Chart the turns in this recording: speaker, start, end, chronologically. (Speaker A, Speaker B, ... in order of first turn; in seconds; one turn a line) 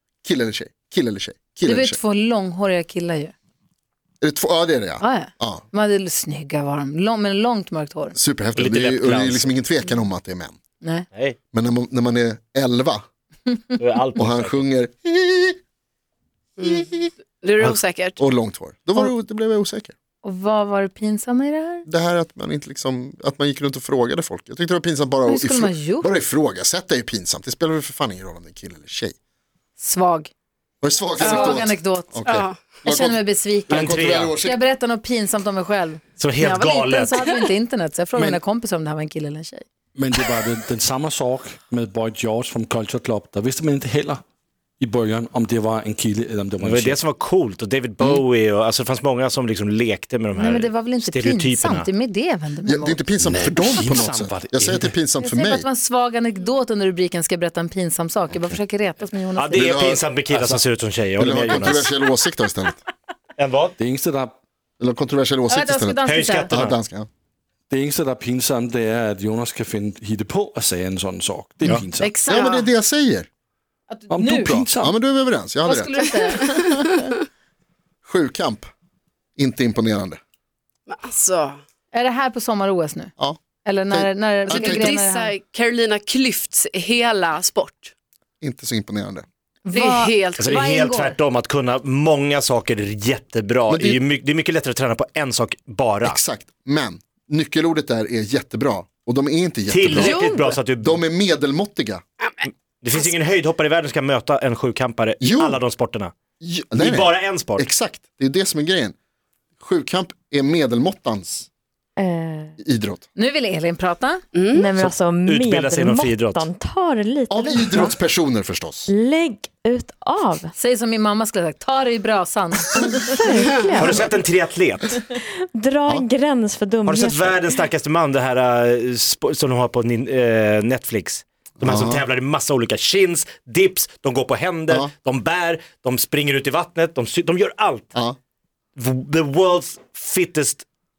Speaker A: 0.2-2.0
Speaker B: 1.6-3.3
Speaker A: 4.2-5.6
Speaker B: 5.0-8.2
Speaker A: 8.2-10.6
Speaker C: 8.6-9.5
Speaker B: 10.8-11.1
Speaker A: 11.5-13.0
Speaker C: 13.8-14.6
Speaker A: 14.2-15.6
Speaker D: 16.6-16.9
Speaker A: 16.7-17.1
Speaker D: 17.4-18.2
Speaker A: 18.2-19.9
Speaker B: 20.2-21.9
Speaker A: 21.9-29.1
Speaker B: 25.3-26.1
Speaker B: 29.8-30.3
Speaker A: 30.8-34.6
Speaker B: 31.2-32.2
Speaker D: 31.2-31.7
Speaker D: 32.2-32.6
Speaker B: 32.9-39.6
Speaker C: 33.7-34.4
Speaker C: 36.2-37.3
Speaker E: 40.0-44.2
Speaker E: 44.8-47.0
Speaker C: 46.6-51.9
Speaker B: 50.4-53.0
Speaker A: 52.7-55.7
Speaker E: 53.2-54.9
Speaker B: 55.2-59.7
Speaker C: 59.4-61.9
Speaker A: 59.5-60.1
Speaker E: 60.3-60.6
Speaker A: 61.2-62.8
Speaker C: 63.4-63.8
Speaker E: 63.8-64.3
Speaker A: 64.8-67.1
Speaker B: 65.5-66.5
Speaker C: 66.1-66.8
Speaker E: 67.7-72.1
Speaker B: 72.0-72.6
Speaker A: 72.3-73.3
Speaker B: 73.9-74.6
Speaker E: 74.1-74.9
Speaker A: 74.8-76.2
Speaker B: 75.7-77.2
Speaker A: 78.0-78.7
Speaker A: 79.4-80.2
Speaker D: 80.9-81.6
Speaker B: 81.9-85.3
Speaker A: 83.9-84.9
Speaker D: 84.5-87.9
Speaker A: 88.4-89.2
Speaker B: 89.7-91.2
Speaker D: 89.7-90.8
Speaker C: 90.4-96.2
Speaker A: 93.7-94.0
Speaker A: 96.0-102.0
Speaker C: 99.7-101.0
Speaker D: 100.0-100.6
Speaker D: 102.2-103.1
Speaker C: 102.4-106.1
Speaker A: 105.2-105.6
Speaker A: 106.4-109.0
Speaker C: 106.8-107.7
Speaker A: 109.6-111.5
Speaker F: 112.0-112.6
Speaker A: 112.6-113.0
Speaker B: 113.2-114.2
Speaker D: 114.3-114.8
Speaker F: 114.5-118.0
Speaker C: 114.8-116.5
Speaker A: 117.3-118.9
Speaker F: 118.9-120.5
Speaker B: 120.6-123.0
Speaker F: 122.7-124.2
Speaker C: 123.8-125.0
Speaker F: 124.9-127.5
Speaker C: 126.8-138.0
Speaker A: 131.6-132.0
Speaker C: 138.8-140.7